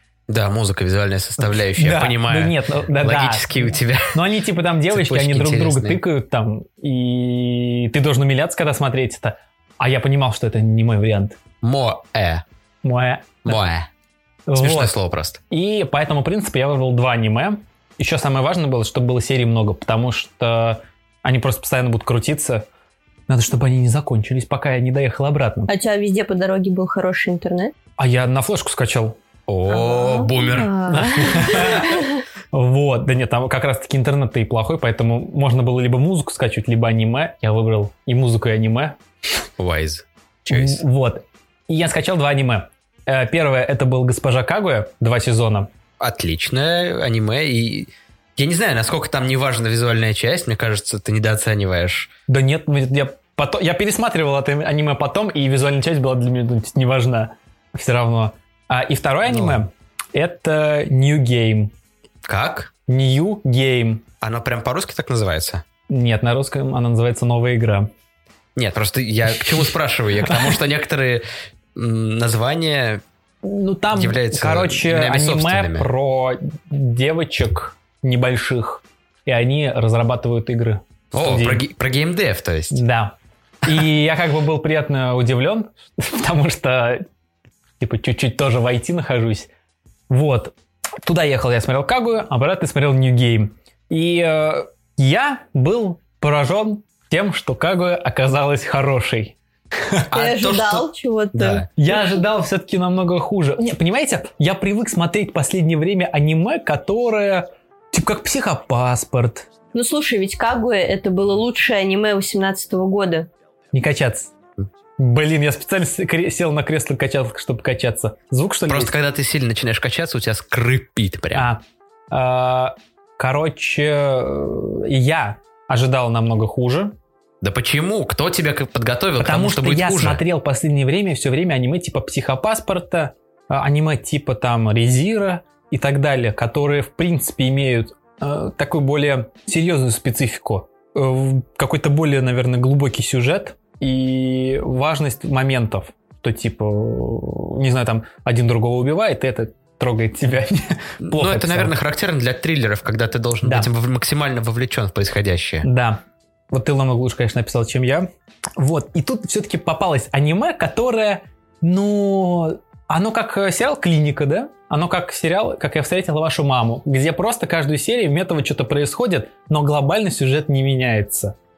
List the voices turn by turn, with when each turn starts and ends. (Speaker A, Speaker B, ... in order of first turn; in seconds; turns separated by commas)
Speaker A: 0.3-4.2, Speaker B: 1.4-11.4, Speaker A: 4.9-6.0, Speaker A: 11.6-12.4, Speaker B: 12.8-13.6, Speaker A: 13.4-13.9, Speaker B: 14.5-15.0, Speaker A: 14.6-15.4, Speaker B: 15.5-22.7, Speaker B: 23.3-25.7, Speaker C: 25.7-27.7, Speaker B: 28.0-29.2, Speaker A: 29.5-32.0, Speaker C: 29.7-32.2, Speaker B: 30.9-39.0, Speaker A: 39.6-40.8, Speaker B: 40.5-45.7, Speaker A: 46.0-52.1, Speaker B: 52.3-61.7, Speaker A: 59.2-59.6, Speaker A: 62.2-62.7, Speaker B: 62.9-64.0, Speaker A: 64.2-65.6, Speaker B: 65.9-67.9, Speaker A: 68.6-73.0, Speaker B: 69.6-70.6, Speaker B: 73.4-81.6, Speaker A: 73.9-75.9, Speaker A: 81.1-82.8, Speaker B: 82.7-87.0, Speaker B: 87.8-89.5, Speaker B: 90.1-100.1, Speaker A: 100.1-101.7, Speaker C: 100.1-102.2, Speaker B: 101.8-109.5, Speaker C: 109.7-113.3, Speaker B: 113.7-114.3, Speaker B: 115.0-118.9, Speaker A: 118.7-121.5, Speaker B: 121.3-126.9, Speaker A: 127.4-130.2, Speaker B: 129.2-151.8, Speaker A: 151.0-155.7, Speaker B: 153.4-153.7, Speaker B: 155.6-171.4